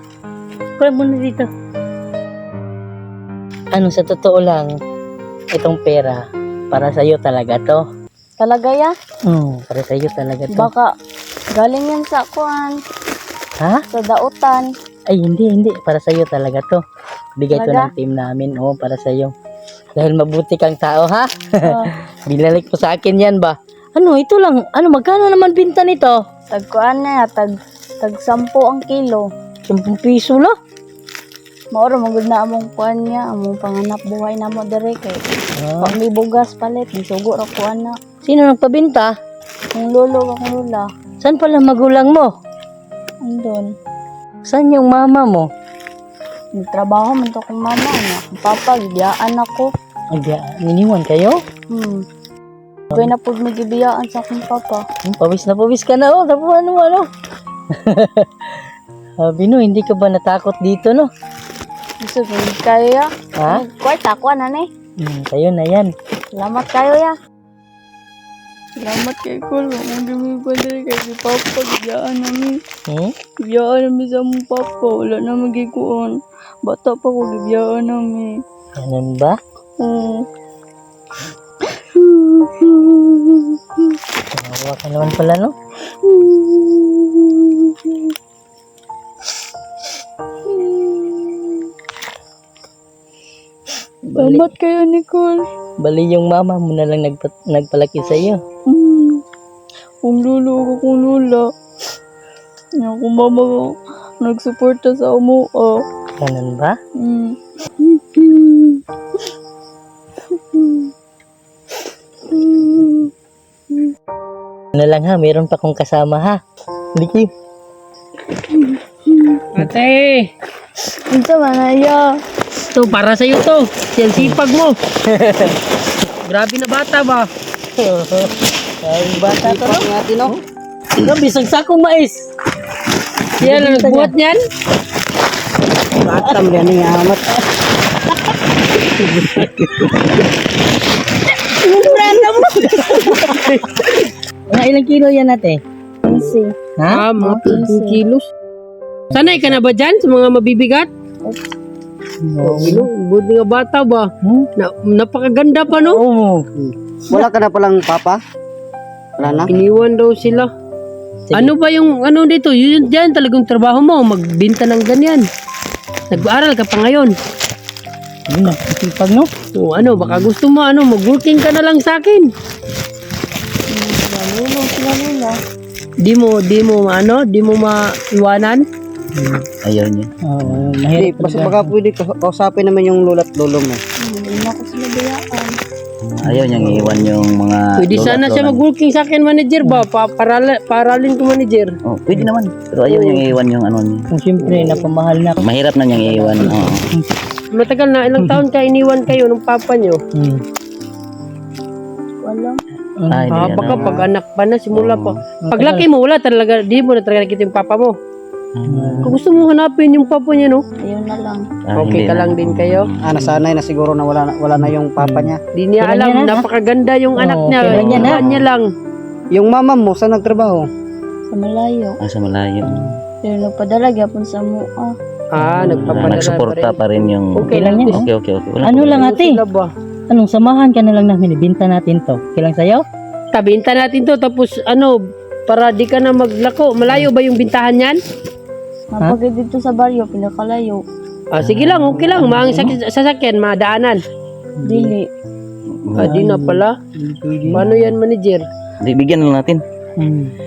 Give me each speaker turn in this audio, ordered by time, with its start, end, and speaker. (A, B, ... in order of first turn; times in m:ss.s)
0:00.8-0:01.5 A
0:03.7-0:04.8 A
0:05.5-0:07.8 A
0:08.4-0:08.9 B
0:09.2-0:10.7 A
0:10.5-0:10.9 B
0:11.5-0:12.8 B
0:13.9-0:14.7 B
0:15.1-0:16.8 A
0:17.4-0:19.3 A
0:17.5-0:17.9 B
0:20.0-0:26.2 A
0:21.6-0:21.9 B
0:26.5-0:29.3 B
0:29.7-0:30.5 A
0:31.7-0:35.2 B
0:35.6-0:36.0 A
0:35.8-0:37.9 B
0:38.2-0:39.1 A
0:39.7-0:40.9 B
0:41.2-0:42.3 A
0:43.2-0:43.7 B
0:44.4-0:45.5 A
0:46.5-0:49.7 B
0:50.1-0:51.4 A
0:51.7-0:52.0 B
0:52.9-0:54.8 B
0:55.0-0:57.0 A
0:57.8-0:58.3 A
0:59.2-1:01.1 A
1:02.0-1:04.7 B
1:05.0-1:05.9 A
1:06.4-1:07.1 B
1:08.8-1:12.6 B
1:13.5-1:16.1 B
1:16.6-1:18.3 B
1:18.8-1:19.4 A
1:19.8-1:20.2 B
1:21.7-1:24.0 B
1:24.4-1:25.5 A
1:26.0-1:28.1 B
1:30.5-1:31.6 B
1:34.1-1:34.5 A
1:34.1-1:35.4 B
1:35.8-1:38.4 A
1:38.7-1:39.2 B
1:40.0-1:41.4 B
1:42.8-1:45.8 B
1:46.2-1:46.8 A
1:47.0-1:48.8 B
1:50.3-1:50.9 B
1:52.3-1:53.1 B
1:54.7-1:56.4 A
1:56.9-1:57.3 A
1:58.5-1:59.4 B
1:59.6-2:00.3 C
2:01.1-2:02.0 B
2:02.7-2:04.8 C
2:05.1-2:05.5 A
2:06.2-2:07.3 C
2:07.8-2:10.4 A
2:09.1-2:10.3 D
2:11.0-2:12.2 A
2:13.4-2:14.1 A
2:13.4-2:14.4 C
2:16.1-2:16.4 A
2:16.1-2:17.3 D
2:19.1-2:19.4 A
2:21.6-2:23.5 A
2:22.4-2:23.4 C
2:24.5-2:25.6 A
2:26.0-2:26.6 B
2:26.8-2:27.0 A
2:26.9-2:28.2 C
2:27.2-2:28.0 B
2:29.1-2:30.9 C
2:32.2-2:32.8 A
2:32.4-2:34.0 C
2:34.6-2:36.0 C
2:35.7-2:36.4 A
2:36.5-2:38.2 D
2:39.2-2:39.5 A
2:39.2-2:39.5 D
2:39.5-2:40.5 C
2:41.3-2:41.5 A
2:41.3-2:45.2 C
2:46.1-2:47.1 C
2:48.3-2:49.3 A
2:49.5-2:52.3 C
2:53.7-2:55.4 B
2:56.0-2:58.6 C
2:59.1-2:59.4 A
2:59.6-3:00.1 E
3:00.2-3:01.7 A
3:00.9-3:03.8 D
3:04.0-3:05.6 B
3:06.2-3:08.6 E
3:06.2-3:07.1 A
3:07.8-3:11.7 C
3:11.9-3:14.0 E
3:12.9-3:13.2 C
3:14.1-3:15.4 A
3:14.4-3:14.8 C
3:15.4-3:16.9 E
3:16.1-3:17.0 A
3:17.5-3:20.0 C
3:20.1-3:20.4 A
3:22.2-3:22.6 B
3:23.0-3:23.8 A
3:23.1-3:23.9 E
3:23.3-3:27.9 C
3:24.7-3:25.1 E
3:25.4-3:25.9 A
3:28.6-3:29.1 E
3:28.6-3:29.2 A
3:29.0-3:30.6 C
3:30.8-3:31.4 B
3:31.7-3:32.9 C
3:31.8-3:32.8 E
3:33.0-3:35.4 D
3:34.6-3:36.4 A
3:35.5-3:38.6 C
3:37.2-3:38.2 A
3:37.8-3:38.4 E
3:39.3-3:40.7 D
3:41.3-3:42.0 B
3:42.0-3:42.9 E
3:43.2-3:44.9 B
3:45.3-3:48.1 C
3:45.4-3:46.2 A
3:45.8-3:47.5 E
3:47.4-3:48.1 A
3:48.0-3:49.0 E
3:48.6-3:49.4 A
3:48.8-3:49.7 C
3:50.1-3:52.8 A
3:53.3-3:54.9 C
3:55.5-3:58.0 C
3:58.9-4:00.8 B
4:01.3-4:04.0 C
4:01.4-4:02.8 A
4:04.6-4:04.9 A
4:04.6-4:05.0 B
4:06.0-4:06.7 C
4:06.0-4:07.6 A
4:07.5-4:08.4 C
4:08.8-4:09.6 E
4:10.0-4:10.3 A